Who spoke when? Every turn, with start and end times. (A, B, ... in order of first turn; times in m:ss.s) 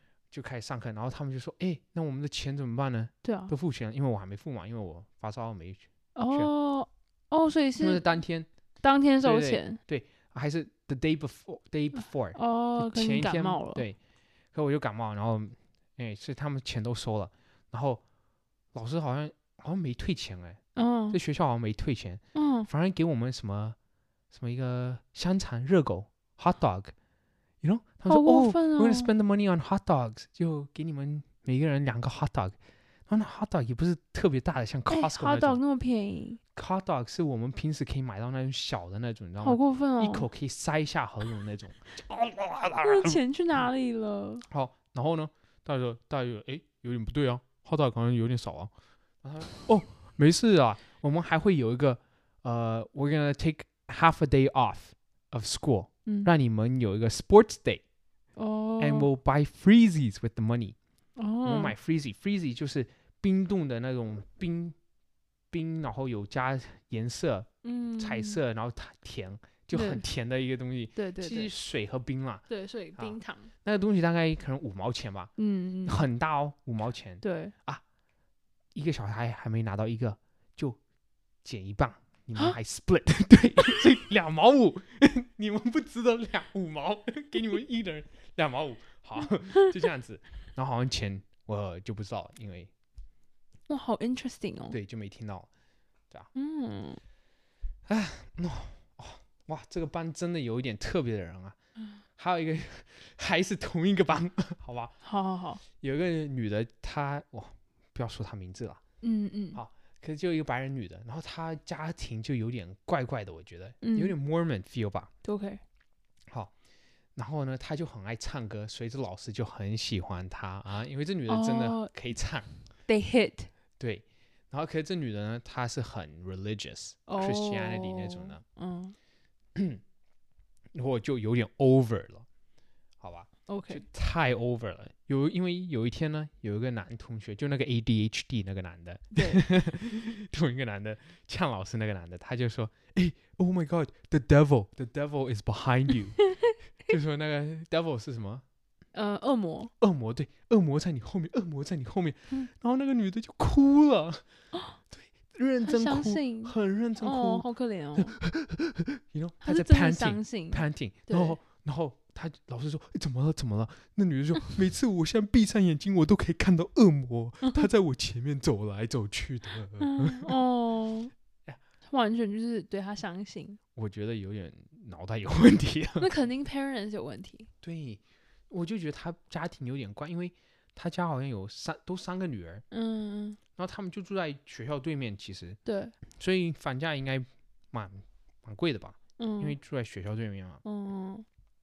0:00.3-0:06.5 A
0:03.2-0:03.5 B
0:06.2-0:08.0 B
0:07.8-0:08.5 A
0:08.8-0:09.8 B
0:09.2-0:14.0 A
0:12.3-0:13.8 B
0:14.5-0:18.0 A
0:18.7-0:20.6 A
0:20.8-0:21.2 B
0:21.1-0:23.8 A
0:22.3-0:22.7 B
0:24.3-0:26.9 A
0:27.6-0:32.6 A
0:28.1-0:29.1 B
0:33.1-0:35.6 A
0:34.9-0:36.4 B
0:36.5-0:43.2 A
0:39.4-0:40.3 B
0:42.8-0:44.4 B
0:44.5-0:48.7 A
0:49.2-0:57.8 A
0:58.4-0:59.1 B
0:58.8-1:00.8 A
1:01.2-1:01.7 B
1:01.4-1:04.8 A
1:05.5-1:12.4 A
1:07.6-1:08.4 B
1:09.7-1:10.0 B
1:11.0-1:11.5 B
1:12.5-1:13.5 B
1:13.0-1:15.3 A
1:15.4-1:16.0 B
1:15.8-1:17.8 A
1:17.2-1:17.5 B
1:18.7-1:20.8 A
1:21.4-1:32.7 A
1:33.7-1:34.8 B
1:34.7-1:35.5 A
1:36.3-1:37.0 B
1:37.9-1:41.6 A
1:42.2-1:44.9 A
1:45.0-1:45.6 B
1:45.8-1:48.8 A
1:49.0-1:49.6 B
1:49.5-1:55.1 A
1:53.8-1:54.1 B
1:55.2-1:55.6 B
1:57.2-2:02.5 A
2:01.3-2:01.9 B
2:02.9-2:03.5 B
2:03.8-2:08.4 A
2:07.1-2:08.9 B
2:09.5-2:09.8 A
2:10.7-2:12.2 A
2:13.0-2:26.2 A
2:13.5-2:13.8 B
2:19.1-2:19.4 B
2:26.9-2:28.4 A
2:28.9-2:29.7 B
2:29.8-2:34.2 A
2:34.9-2:50.3 A
2:35.6-2:38.2 B
2:39.4-2:41.4 B
2:49.8-2:51.1 B
2:51.9-2:53.6 B
2:53.7-2:56.1 A
2:56.0-2:57.5 B
2:57.6-3:02.6 A
3:02.7-3:03.4 B
3:03.6-3:05.6 A
3:05.6-3:06.0 B
3:06.1-3:10.6 A
3:09.2-3:09.6 B
3:10.6-3:11.2 B